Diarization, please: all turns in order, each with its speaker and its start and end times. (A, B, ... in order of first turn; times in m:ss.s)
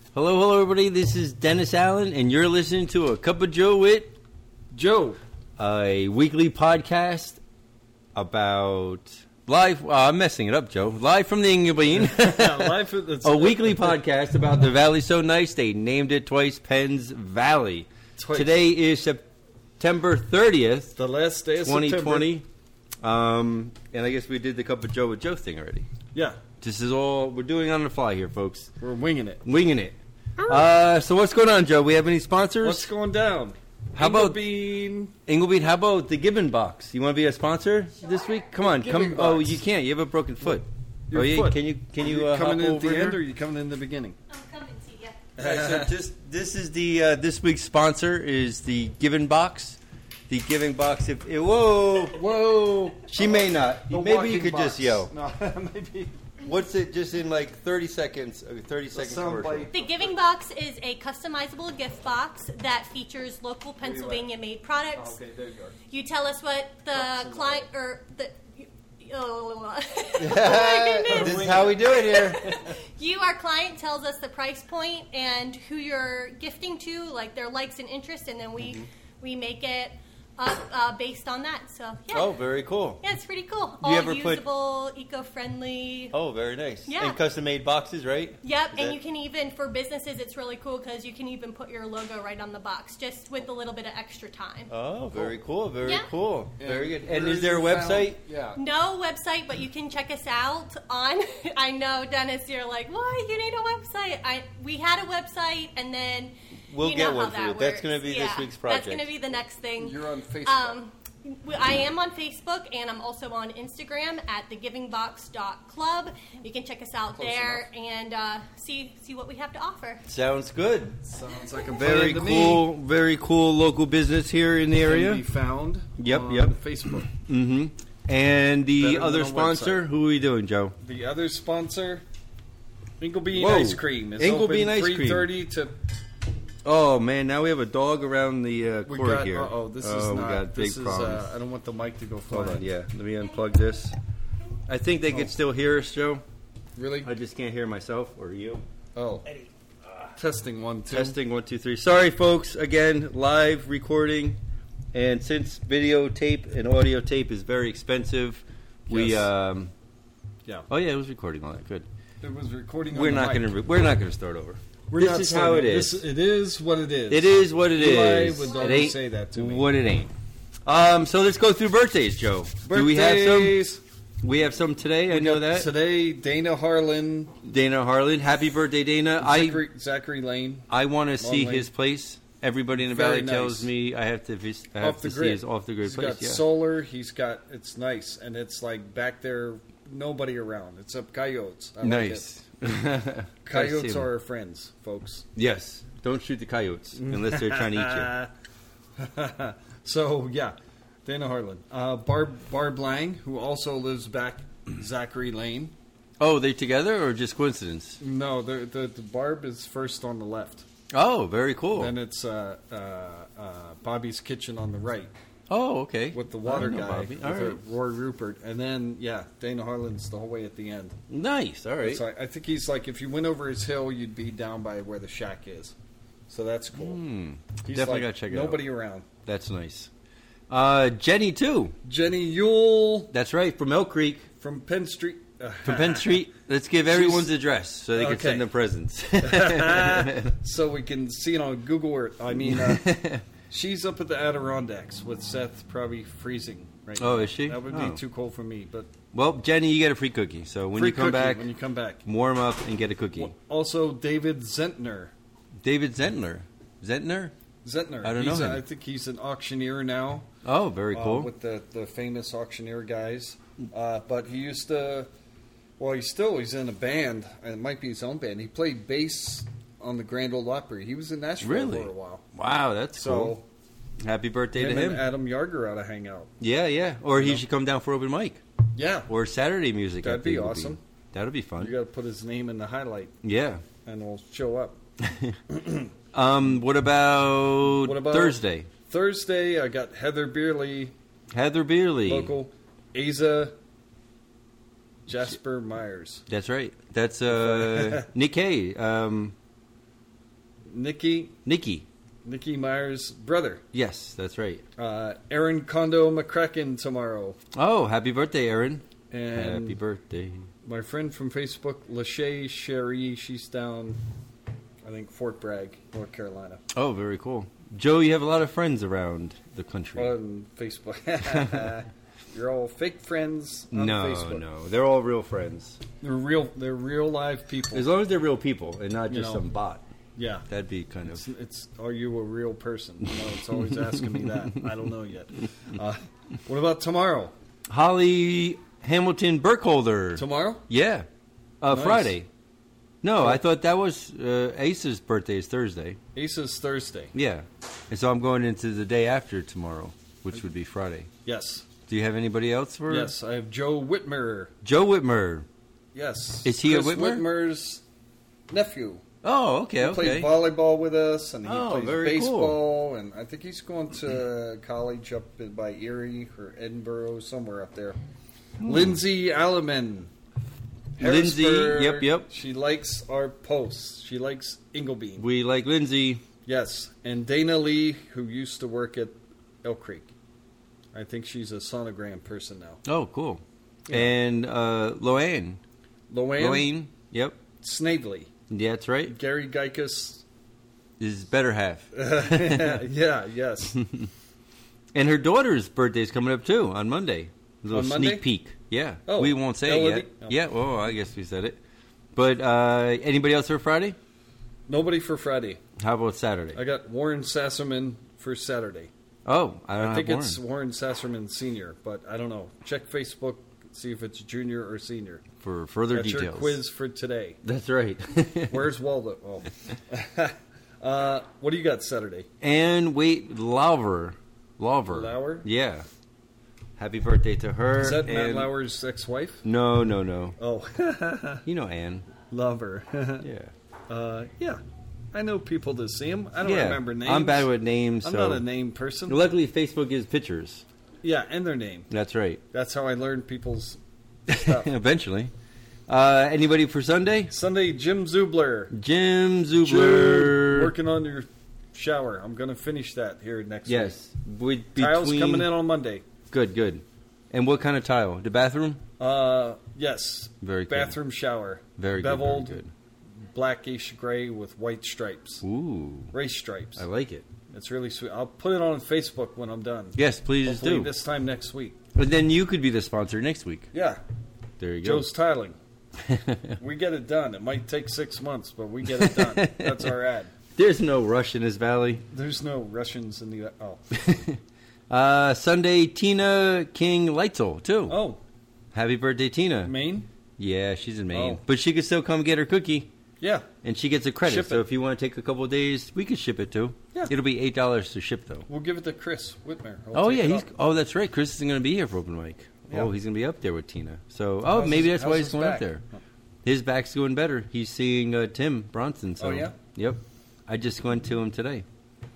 0:00.1-0:04.2 A
0:04.7-0:05.2 B
0:05.6-0:07.4 A
0:08.2-0:19.2 A
0:12.0-0:14.0 B
0:18.2-0:18.6 B
0:19.8-0:21.0 A
0:21.0-0:22.3 B
0:21.6-0:22.4 A
0:23.0-0:25.9 A
0:26.1-0:26.4 B
0:26.6-0:28.7 A
0:28.8-0:29.4 B
0:29.4-0:32.9 A
0:32.6-0:35.1 B
0:34.0-0:34.4 A
0:35.3-0:43.2 A
0:38.0-0:38.5 C
0:38.6-0:39.6 B
0:41.1-0:44.2 B
0:44.3-0:45.2 C
0:45.4-0:46.0 B
0:45.4-0:52.2 A
0:52.1-0:56.2 B
0:53.0-0:55.1 A
0:56.4-0:59.7 A
0:58.9-1:00.2 B
0:59.7-1:05.2 C
1:03.8-1:04.3 B
1:04.9-1:05.8 B
1:05.9-1:22.3 C
1:06.9-1:07.7 B
1:10.2-1:12.6 A
1:11.0-1:12.8 B
1:18.6-1:18.9 A
1:22.1-1:23.0 A
1:23.0-1:26.2 C
1:23.8-1:24.4 A
1:26.1-1:29.0 A
1:26.9-1:27.2 C
1:28.4-1:34.7 C
1:34.7-1:38.2 A
1:35.1-1:35.4 B
1:36.6-1:38.6 B
1:38.6-2:00.0 C
1:46.7-1:49.1 A
1:49.8-1:50.8 B
1:57.1-1:57.7 B
2:00.1-2:01.0 A
2:01.1-2:02.6 B
2:01.7-2:05.2 A
2:04.8-2:07.1 B
2:06.0-2:10.8 A
2:08.8-2:09.8 B
2:10.8-2:12.0 B
2:13.0-2:15.8 B
2:13.3-2:15.3 A
2:16.6-2:21.3 A
2:18.9-2:22.6 B
2:22.3-2:24.0 A
2:24.7-2:26.2 A
2:25.1-2:25.3 B
2:26.8-2:27.1 B
2:27.0-2:28.6 A
2:29.0-2:29.3 B
2:30.2-2:31.2 B
2:30.9-2:34.4 A
2:34.9-2:39.7 A
2:38.9-2:39.3 B
2:40.7-2:41.9 A
2:42.2-2:43.5 B
2:42.9-2:46.0 A
2:44.9-2:49.7 B
2:47.1-2:50.1 A
2:50.6-2:53.6 A
2:52.6-2:53.8 B
2:54.2-2:55.7 A
2:55.1-2:57.4 B
2:57.4-2:59.6 A
2:59.2-3:01.7 B
3:00.7-3:06.4 A
3:02.8-3:03.7 B
3:04.8-3:12.3 B
3:11.8-3:14.1 A
3:13.4-3:15.2 B
3:15.4-3:18.1 A
3:17.0-3:18.3 B
3:19.0-3:25.7 B
3:26.2-3:28.0 A
3:28.0-3:30.6 B
3:30.9-3:31.9 A
3:31.7-3:35.1 B
3:35.5-3:37.6 A
3:36.1-3:41.0 B
3:41.1-3:42.0 A
3:41.8-3:45.8 B
3:46.3-3:47.0 B
3:46.7-3:48.6 A
3:47.6-3:49.1 B
3:49.2-3:49.9 A
3:50.5-3:51.8 A
3:51.8-3:53.1 B
3:53.1-3:54.3 A
3:54.4-3:56.2 B
3:55.6-4:00.3 A
3:56.9-3:57.3 B
3:57.9-3:58.5 B
3:59.2-4:08.9 B
4:02.3-4:03.2 A
4:07.0-4:08.0 A
4:09.1-4:11.5 A
4:10.8-4:12.0 B
4:12.0-4:13.3 A
4:13.2-4:15.1 B
4:15.6-4:17.3 A
4:17.6-4:20.3 B
4:18.0-4:18.6 A
4:20.4-4:21.3 A
4:20.9-4:25.1 B
4:25.8-4:32.2 B
4:31.4-4:33.4 A
4:33.0-4:33.4 B
4:34.0-4:35.0 A
4:34.6-4:36.3 B
4:36.4-4:38.4 A
4:37.1-4:37.4 B
4:38.8-4:39.1 B
4:39.1-4:41.7 A
4:40.0-4:40.8 B
4:41.6-4:43.2 B
4:43.2-4:43.6 A
4:43.8-4:44.8 B
4:45.0-4:45.4 A
4:45.5-4:45.9 B
4:46.1-4:48.7 A
4:47.8-4:51.0 B
4:51.3-4:52.3 A
4:52.0-4:53.6 B
4:55.1-4:56.2 B
4:56.3-4:59.4 A
4:57.3-4:58.1 B
5:00.7-5:01.4 B
5:01.4-5:01.9 A
5:02.2-5:03.6 B
5:03.7-5:04.6 A
5:04.8-5:07.4 B
5:07.5-5:10.5 A
5:09.1-5:09.8 B
5:10.6-5:14.0 B
5:14.8-5:16.6 B
5:16.7-5:20.1 A
5:20.0-5:24.4 B
5:21.3-5:21.7 A
5:23.7-5:25.8 A
5:26.0-5:27.9 B
5:27.7-5:29.8 A
5:29.1-5:29.4 B
5:30.2-5:30.5 B
5:30.5-5:31.3 A
5:31.1-5:37.3 B
5:37.7-5:41.1 A
5:40.2-5:40.6 B
5:41.6-5:42.3 A
5:41.7-5:42.2 B
5:43.0-5:46.0 A
5:46.2-5:47.1 B
5:47.1-5:51.1 A
5:51.2-5:51.7 B
5:51.9-5:53.1 A
5:52.9-5:54.5 B
5:54.6-5:55.5 A
5:55.9-5:57.8 B
5:56.4-5:57.3 A
5:58.5-5:59.0 B
5:59.2-6:00.3 A
5:59.8-6:08.0 B
6:01.4-6:02.6 A
6:08.6-6:09.0 A
6:08.6-6:10.1 B
6:11.0-6:15.3 B
6:11.0-6:12.3 A
6:15.2-6:16.2 A
6:16.4-6:20.1 B
6:20.9-6:22.8 B
6:22.8-6:25.6 A
6:26.1-6:26.7 B
6:26.4-6:27.4 A
6:27.6-6:28.3 B
6:28.5-6:29.2 A
6:29.1-6:30.2 B
6:31.0-6:32.8 A
6:31.9-6:33.8 B
6:33.8-6:34.1 A
6:34.9-6:41.6 A
6:37.7-6:38.2 B
6:39.1-6:40.4 B
6:42.1-6:44.0 A
6:44.7-6:45.6 B
6:45.8-6:46.6 A
6:46.5-6:48.9 B
6:49.2-6:50.4 A
6:49.8-6:55.2 B
6:55.4-6:56.6 A
6:55.9-6:57.4 B
6:57.4-6:58.6 A
6:58.5-7:02.3 B
7:02.4-7:05.9 A
7:04.9-7:05.5 B
7:06.8-7:08.5 A
7:07.8-7:09.4 B
7:09.4-7:10.4 A
7:10.4-7:11.4 B
7:11.4-7:12.1 A
7:12.3-7:13.3 B
7:13.2-7:13.5 A
7:13.9-7:14.6 B
7:15.1-7:17.5 B
7:16.4-7:18.5 A
7:18.0-7:19.2 B
7:19.1-7:20.6 A
7:21.0-7:21.9 B
7:21.9-7:22.4 A
7:22.5-7:24.7 B
7:24.3-7:25.3 A
7:25.9-7:27.3 A
7:27.3-7:28.7 B
7:28.7-7:30.7 A
7:29.6-7:34.0 B
7:33.7-7:35.5 A
7:34.8-7:36.0 B
7:36.3-7:38.8 A
7:39.0-7:42.6 B
7:40.4-7:41.0 A
7:41.8-7:42.7 A
7:43.3-7:45.4 B
7:45.4-7:46.1 A
7:46.1-7:46.9 B
7:46.8-7:47.3 A
7:47.5-7:51.8 B
7:50.0-7:50.9 A
7:52.0-7:53.7 A
7:53.7-7:54.0 B
7:54.6-7:55.1 A
7:54.8-7:55.6 B
7:56.0-7:56.6 A
7:56.6-8:00.3 B
7:58.8-7:59.9 A
8:00.6-8:02.0 A
8:02.1-8:04.0 B
8:03.9-8:08.0 A
8:07.9-8:08.2 B
8:08.7-8:09.7 A
8:09.6-8:10.1 B
8:10.4-8:12.9 A
8:11.1-8:11.4 B
8:13.2-8:13.5 B
8:13.6-8:18.5 A
8:14.2-8:14.6 B
8:18.5-8:20.5 B
8:19.9-8:25.8 A
8:24.5-8:26.0 B
8:26.4-8:31.6 A
8:29.2-8:29.6 B